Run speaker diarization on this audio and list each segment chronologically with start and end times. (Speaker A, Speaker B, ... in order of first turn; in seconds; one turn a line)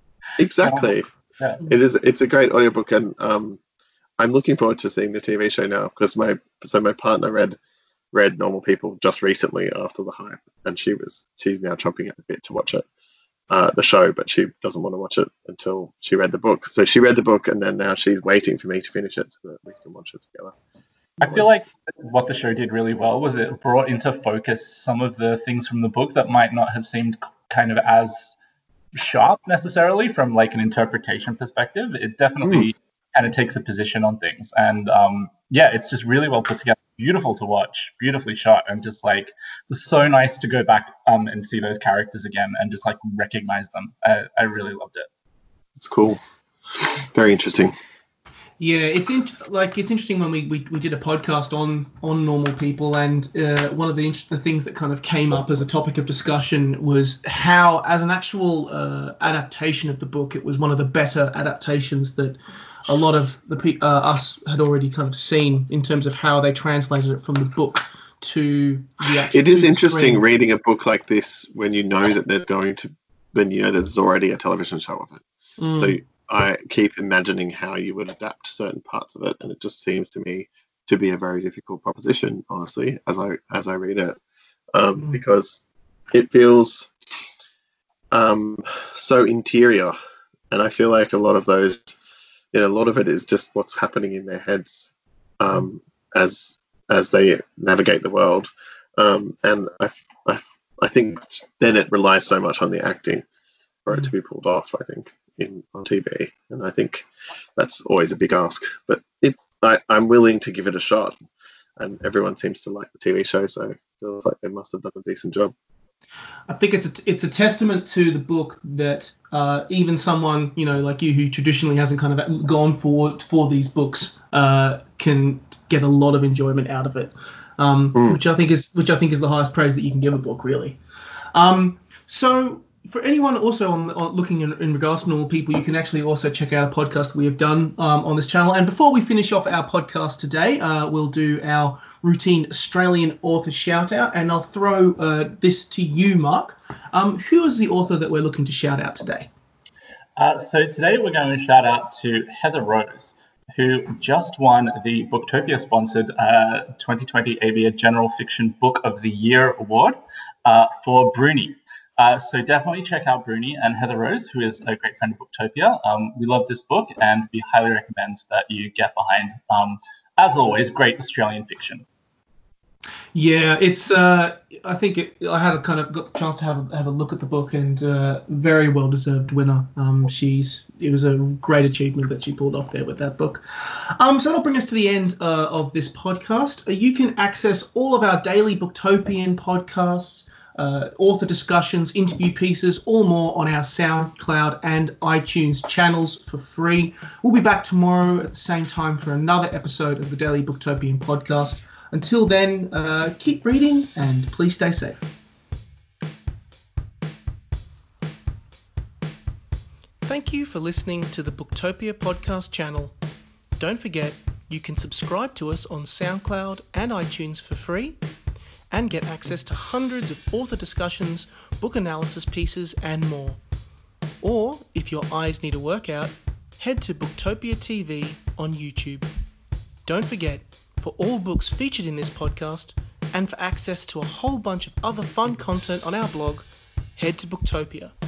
Speaker A: 0.4-1.0
Speaker B: 0.6-1.7
Speaker A: 1.6-3.6
Speaker A: 4.2-7.6
Speaker A: 8.1-12.8
Speaker A: 13.5-20.6
Speaker B: 21.2-28.4
Speaker A: 21.2-21.6
Speaker B: 29.0-45.1
Speaker A: 45.8-46.2
Speaker A: 46.7-47.7
Speaker C: 48.6-70.2
Speaker A: 69.3-75.2
Speaker C: 75.6-76.0
Speaker A: 75.8-84.2
Speaker A: 84.7-86.9
Speaker A: 88.1-89.9
Speaker A: 90.5-92.0
Speaker A: 92.5-103.2
Speaker A: 103.8-107.0
Speaker A: 107.6-111.2
Speaker A: 111.8-115.5
Speaker C: 116.5-130.8
Speaker C: 131.3-149.3
Speaker B: 150.2-171.8
Speaker C: 173.1-205.1
Speaker C: 210.0-212.9
Speaker C: 213.6-218.0
Speaker C: 218.7-223.4
Speaker C: 224.2-229.1
Speaker C: 229.8-237.9